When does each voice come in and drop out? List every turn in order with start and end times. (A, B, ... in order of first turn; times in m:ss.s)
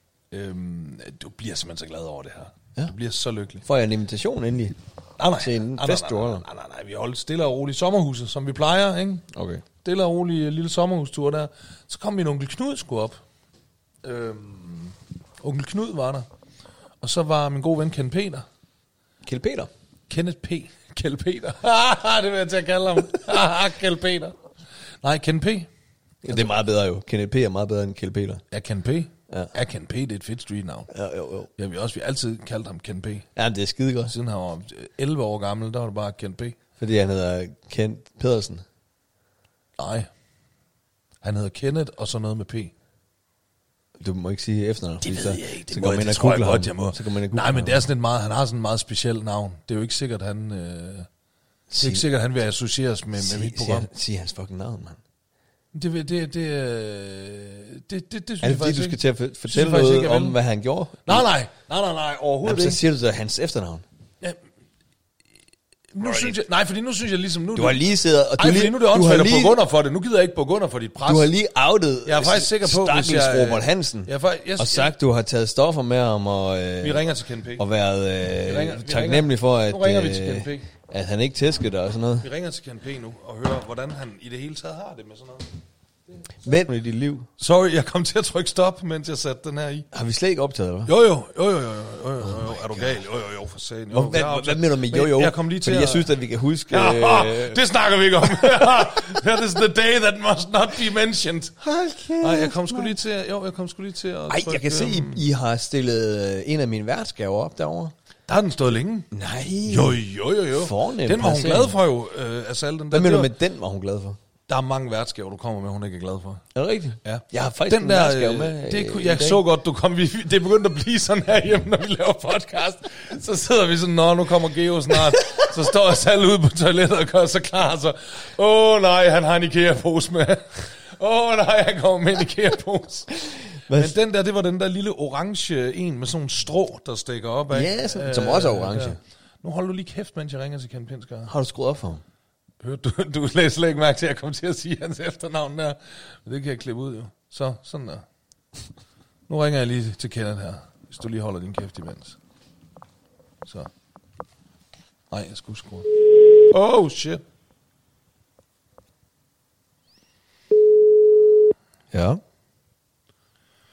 0:00.3-0:03.6 A
0:03.6-0:04.8 B
0:05.2-0:09.3 A
0:05.4-0:06.4 B
0:09.3-0:09.6 B
0:09.8-0:13.2 A
0:14.0-0:16.3 A
0:17.0-0:18.4 A
0:19.2-0:19.7 B
0:20.1-0:24.4 A
0:25.0-0:25.7 A
0:26.2-0:28.4 B
0:26.2-0:26.6 A
0:28.5-0:30.9 A
0:30.9-0:31.5 B
0:31.6-0:33.3 A
0:33.4-0:34.1 B
0:34.1-0:36.6 A
0:36.8-0:38.6 B
0:39.8-0:40.1 A
0:41.2-0:42.7 A
0:44.0-0:47.8 B
0:45.0-0:51.1 A
0:51.7-0:52.0 B
0:51.8-0:53.9 A
0:53.2-0:55.0 B
0:55.7-1:00.4 A
0:58.4-1:01.3 B
1:01.0-1:02.8 A
1:02.4-1:03.8 B
1:05.9-1:11.3 A
1:06.0-1:06.3 B
1:07.5-1:09.6 B
1:11.0-1:17.0 B
1:12.0-1:14.9 A
1:16.8-1:17.6 A
1:17.6-1:22.3 B
1:18.4-1:20.7 A
1:22.2-1:25.5 A
1:26.4-1:27.3 B
1:27.4-1:29.9 A
1:29.9-1:30.9 B
1:30.8-1:36.1 A
1:33.9-1:37.6 B
1:36.7-1:41.6 A
1:41.6-1:43.0 B
1:42.2-1:45.2 A
1:44.3-1:47.9 B
1:48.3-1:49.1 A
1:49.1-1:50.0 B
1:49.6-1:53.3 A
1:50.5-1:51.7 B
1:52.9-1:54.2 B
1:54.5-1:56.4 A
1:56.5-1:59.4 B
1:57.0-2:13.1 A
2:13.2-2:13.9 B
2:13.7-2:21.3 A
2:17.5-2:19.0 B
2:21.3-2:22.0 B
2:22.6-2:28.0 A
2:29.3-2:32.2 A
2:35.1-2:35.9 A
2:36.5-2:37.2 A
2:41.9-2:42.2 B